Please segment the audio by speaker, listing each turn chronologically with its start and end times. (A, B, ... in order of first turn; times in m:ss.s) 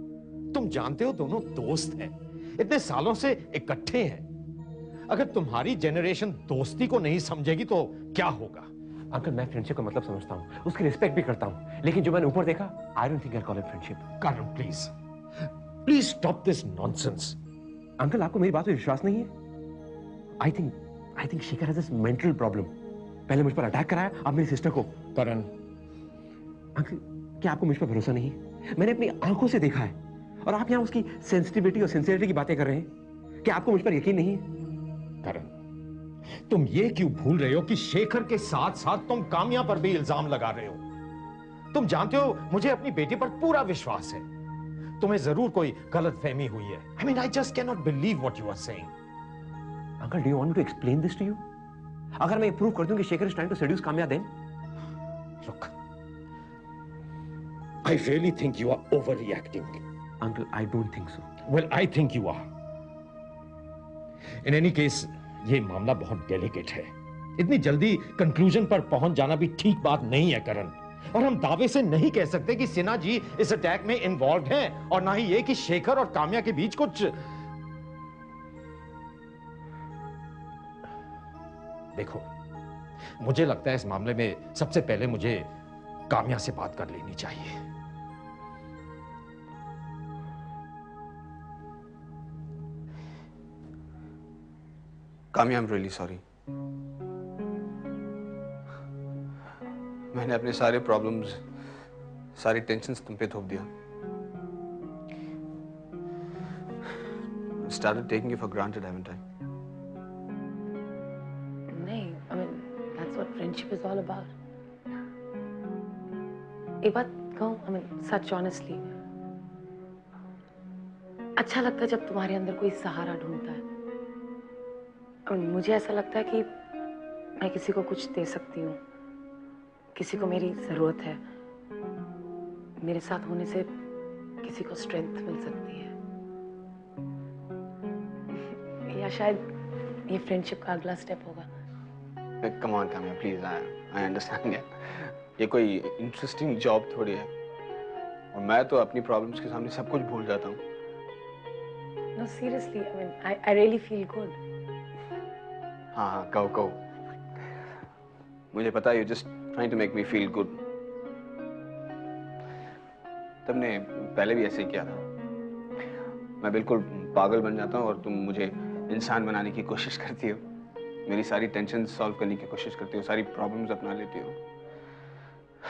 0:00.5-0:04.2 A
0:05.1-0:08.7 A
0:09.1-0:14.1 B
0:14.2-0:14.9 A
0:15.8-0:17.4 A
0:18.0-0:19.3 B
0:20.4-0:22.7 B
0:23.3-0:25.0 B
0:25.1-0:25.5 A
0:26.8-0:32.9 B
0:33.4-0:34.5 B
0:35.2-0:35.5 A
0:36.5-0:40.8 A
0:41.7-0:44.2 A
0:45.0-0:48.9 A
0:50.0-0:51.4 B
0:52.2-0:54.3 B
0:55.4-0:55.7 A
0:57.8-0:59.8 A
1:00.2-1:01.3 B
1:01.5-1:02.5 A
1:04.4-1:17.1 A
1:22.0-1:22.3 A
1:23.2-1:25.5 A
1:26.1-1:27.6 A
1:35.3-1:36.2 C
1:40.1-1:41.4 C
1:42.4-1:43.7 C
1:47.6-1:49.2 C
1:51.7-1:54.3 D
1:56.8-1:58.8 D
2:01.4-2:03.6 D
2:05.3-2:06.5 D
2:07.4-2:08.8 D
2:10.0-2:11.2 D
2:12.8-2:13.7 D
2:14.4-2:15.9 D
2:18.9-2:19.4 D
2:20.1-2:21.5 D
2:22.4-2:27.3 C
2:28.3-2:30.6 C
2:32.2-2:34.4 D
2:35.9-2:36.8 C
2:38.5-2:40.6 C
2:43.5-2:45.0 C
2:46.4-2:50.4 C
2:51.1-2:54.4 C